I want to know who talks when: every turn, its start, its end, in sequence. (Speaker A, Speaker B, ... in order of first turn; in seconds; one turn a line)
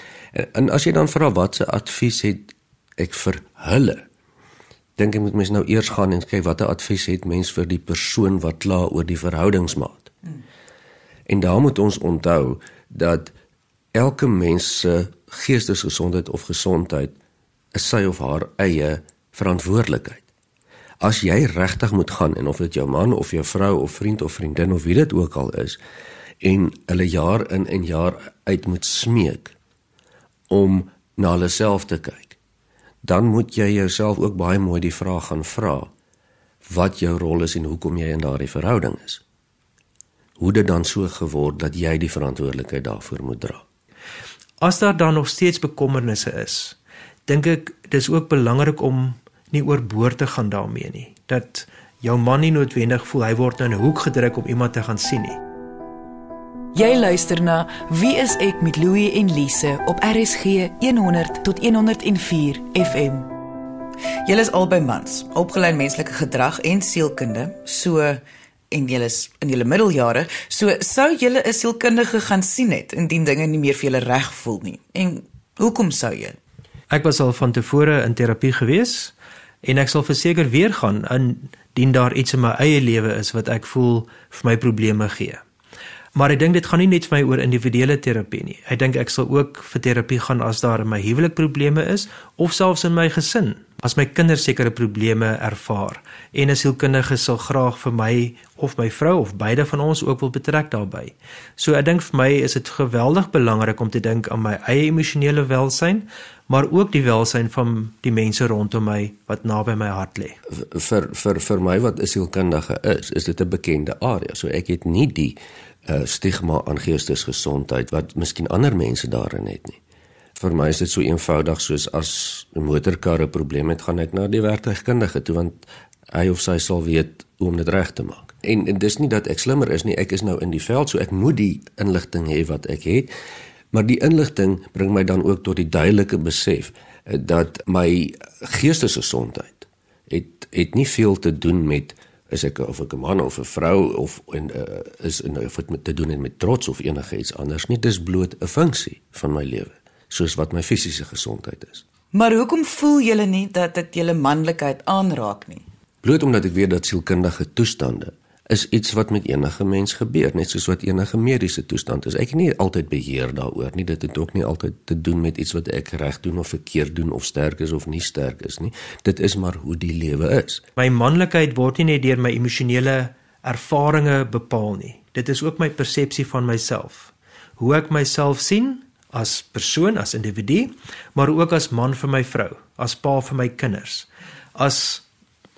Speaker A: 0.3-4.0
Speaker A: 5.0-10.1
Speaker A: 11.3-13.3
Speaker A: 13.9-17.1
Speaker A: 17.7-20.2
Speaker A: 21.0-25.8
Speaker A: 26.4-29.5
Speaker A: 30.5-32.4
Speaker A: 33.0-35.9
Speaker A: 36.6-39.2
Speaker A: 40.4-43.6
Speaker B: 44.6-46.8
Speaker B: 47.3-55.4
Speaker C: 56.7-63.3
Speaker C: 64.2-68.2
Speaker C: 68.7-76.4
Speaker B: 76.9-85.4
Speaker B: 86.1-110.4
Speaker A: 110.5-119.8
Speaker A: 120.3-133.1
Speaker A: 133.7-151.8
Speaker C: 152.1-155.6
Speaker A: 156.0-170.6
Speaker B: 170.8-185.0